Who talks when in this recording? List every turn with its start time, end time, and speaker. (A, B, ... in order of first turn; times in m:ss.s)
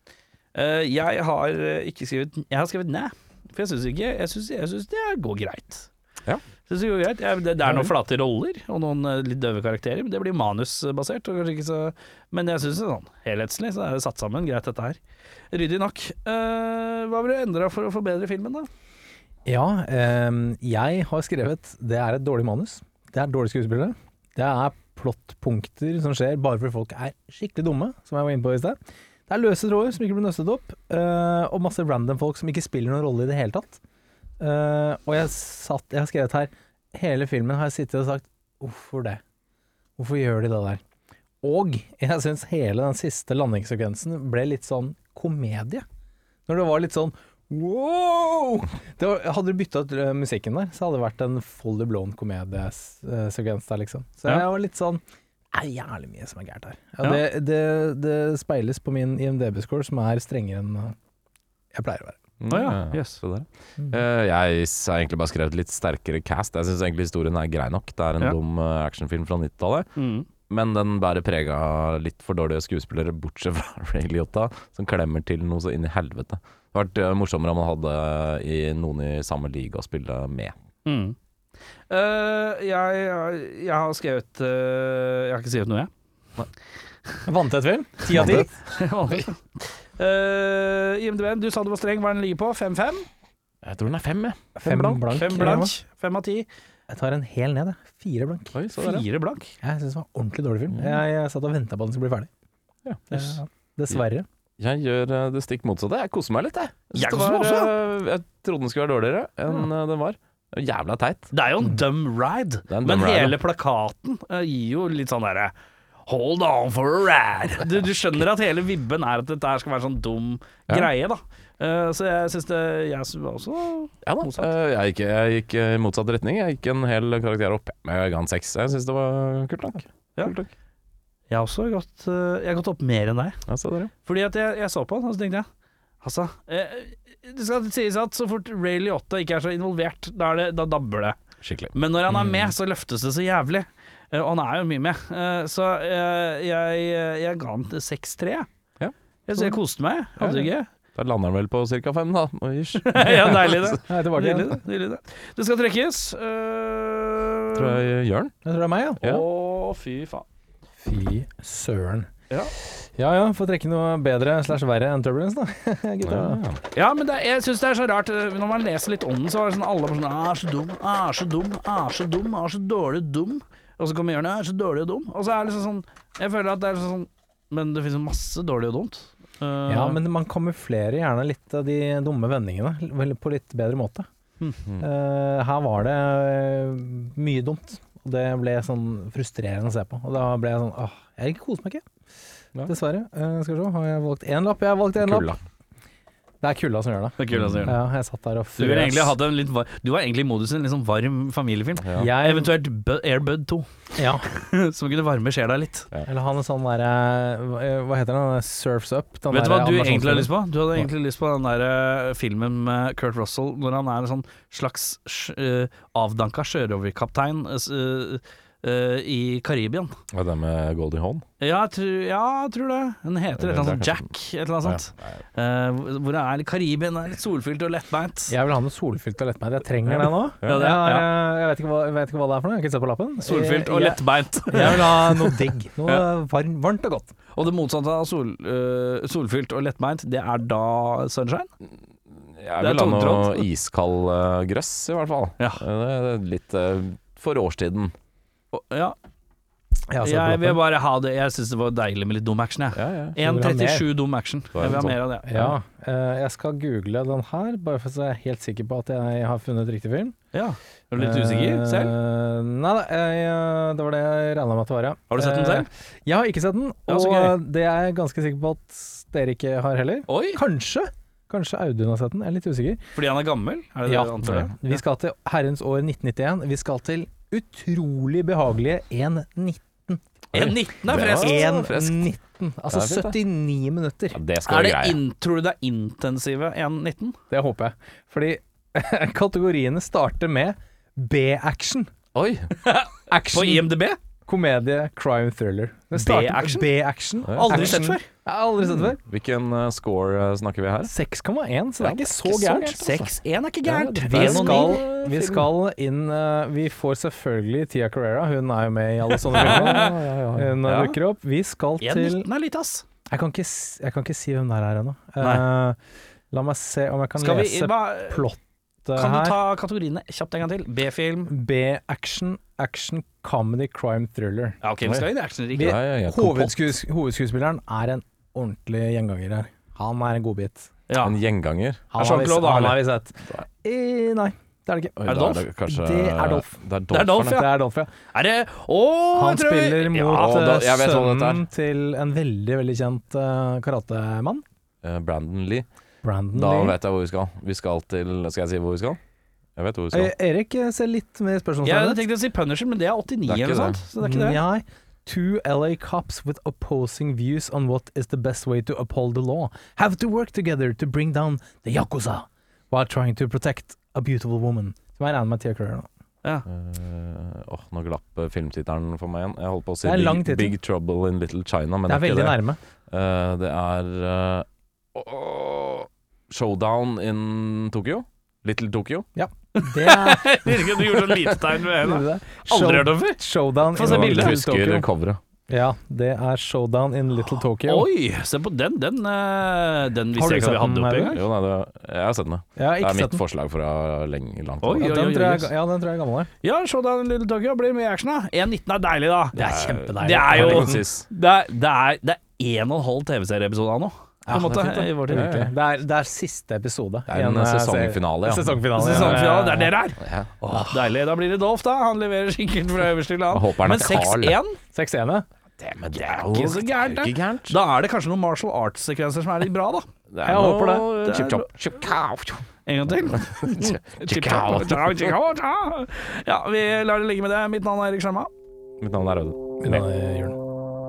0:00.6-0:05.9 A
0:06.7-0:15.0 A
0:07.6-0:07.9 B
0:15.5-0:18.7 A
0:19.5-0:33.8 B
0:34.4-0:39.2 B
0:40.0-0:40.8 B
0:41.4-0:45.8 B
0:46.5-0:55.0 B
0:55.5-1:01.0 B
1:01.7-1:02.2 B
1:02.4-1:09.9 C
1:02.5-1:03.2 A
1:10.0-1:10.3 A
1:10.5-1:20.5 C
1:20.9-1:21.2 A
1:21.9-1:25.9 A
1:27.3-1:28.5 B
1:28.1-1:28.5 C
1:28.3-1:33.1 A
1:33.6-1:35.2 C
1:34.6-1:35.8 B
1:35.1-1:36.5 A
1:36.9-1:38.6 B
1:38.6-1:39.0 C
1:38.8-1:39.5 A
1:39.6-1:42.3 B
1:40.7-1:41.0 C
1:42.8-1:43.3 C
1:43.1-1:44.3 B
1:44.6-1:51.3 C
1:47.0-1:47.7 A
1:51.3-1:55.5 A
1:52.7-1:53.4 C
1:56.1-2:04.5 A
2:04.0-2:10.5 C
2:11.3-2:13.4 A
2:13.5-2:13.9 C
2:14.0-2:15.5 A
2:16.0-2:21.2 A
2:21.4-2:22.5 C
2:21.7-2:28.5 A
2:29.3-2:30.7 A
2:30.2-2:30.5 B
2:31.0-2:33.8 C
2:32.8-2:37.8 A
2:33.9-2:34.6 B
2:37.5-2:38.3 C
2:38.4-2:39.0 B
2:39.0-2:40.3 A
2:40.8-2:42.1 B
2:42.7-2:46.4 B
2:46.0-2:46.6 C
2:46.7-3:00.0 A
2:59.7-3:04.1 B
3:04.8-3:11.8 B
3:12.7-3:15.3 B
3:15.0-3:15.4 C
3:16.4-3:19.2 B
3:17.2-3:17.8 A
3:17.3-3:17.8 C
3:18.6-3:25.9 A
3:21.8-3:22.1 C
3:22.0-3:22.5 B
3:24.0-3:24.2 B
3:26.1-3:30.3 B
3:29.3-3:40.0 A
3:40.1-3:41.2 C
3:41.4-3:48.4 A
3:43.4-3:44.1 C
3:44.6-3:45.1 C
3:48.3-3:57.2 B
3:50.4-3:50.7 C
3:50.4-3:51.1 A
3:53.2-3:55.4 A
3:57.4-4:01.5 A
4:02.4-4:07.9 C
4:02.6-4:03.5 A
4:08.5-4:09.0 A
4:09.9-4:10.6 B
4:10.0-4:15.3 A
4:12.8-4:13.2 C
4:13.2-4:13.9 B
4:14.6-4:15.5 C
4:15.3-4:20.2 B
4:20.3-4:22.0 A
4:21.0-4:32.8 B
4:25.1-4:25.7 A
4:26.9-4:27.4 A
4:30.1-4:30.4 A
4:33.0-4:34.6 A
4:33.9-4:40.0 B
4:40.3-4:41.5 A
4:40.3-4:42.1 C
4:40.9-4:44.2 B
4:42.7-4:43.2 C
4:44.1-4:45.0 C
4:44.4-4:47.2 A
4:47.3-4:51.9 B
4:52.2-4:52.5 C
4:52.6-4:54.0 A
4:53.1-4:53.7 B
4:54.2-4:59.0 B
4:55.9-4:56.7 A
4:57.3-4:57.8 C
4:57.3-4:58.1 A
4:58.7-5:00.9 C
5:00.8-5:03.1 B
5:01.8-5:02.2 C
5:02.3-5:04.8 A
5:03.7-5:05.5 C
5:04.1-5:12.3 B
5:09.3-5:09.9 A
5:09.3-5:11.0 C
5:11.8-5:12.9 A
5:13.1-5:15.8 B
5:16.3-5:19.4 B
5:17.2-5:18.2 A
5:19.0-5:21.3 A
5:21.3-5:24.6 B
5:24.6-5:25.8 A
5:24.8-5:26.6 C
5:25.5-5:30.7 B
5:30.9-5:31.2 A
5:31.0-5:31.9 C
5:31.9-5:35.0 B
5:32.0-5:32.8 A
5:35.0-5:37.4 C
5:35.1-5:35.4 A
5:35.6-5:36.5 B
5:36.9-5:37.5 A
5:37.3-5:37.9 B
5:38.1-5:40.5 A
5:39.1-5:44.4 B
5:40.1-5:41.4 C
5:44.8-5:45.7 C
5:46.0-5:46.8 B
5:46.3-5:49.0 C
5:49.6-5:50.1 C
5:49.9-5:52.0 B
5:51.6-5:54.4 A
5:53.3-5:53.8 C
5:54.0-6:05.9 B
6:06.5-6:19.1 C
6:09.8-6:10.6 B
6:11.9-6:12.6 B
6:19.2-6:20.9 B
6:19.6-6:23.2 A
6:21.8-6:24.9 B
6:23.7-6:24.4 A
6:23.8-6:25.2 C
6:25.5-6:27.9 B
6:27.6-6:31.2 A
6:30.2-6:31.2 B
6:31.1-6:35.5 C
6:32.6-6:33.2 B
6:34.6-6:35.4 A
6:34.8-6:36.3 B
6:36.4-6:39.4 A
6:39.3-6:40.8 B
6:39.4-6:41.1 C
6:40.0-6:45.4 A
6:44.3-6:49.8 B
6:44.3-6:45.5 C
6:47.1-6:49.3 C
6:48.8-6:54.6 A
6:50.0-6:50.4 C
6:53.3-6:54.4 C
6:54.7-6:55.3 B
6:55.6-6:57.6 C
6:56.0-6:59.9 A
7:00.1-7:02.4 C
7:00.2-7:00.9 B
7:01.0-7:01.5 A
7:02.7-7:08.3 A
7:03.1-7:05.2 C
7:08.8-7:09.8 C
7:09.6-7:10.4 B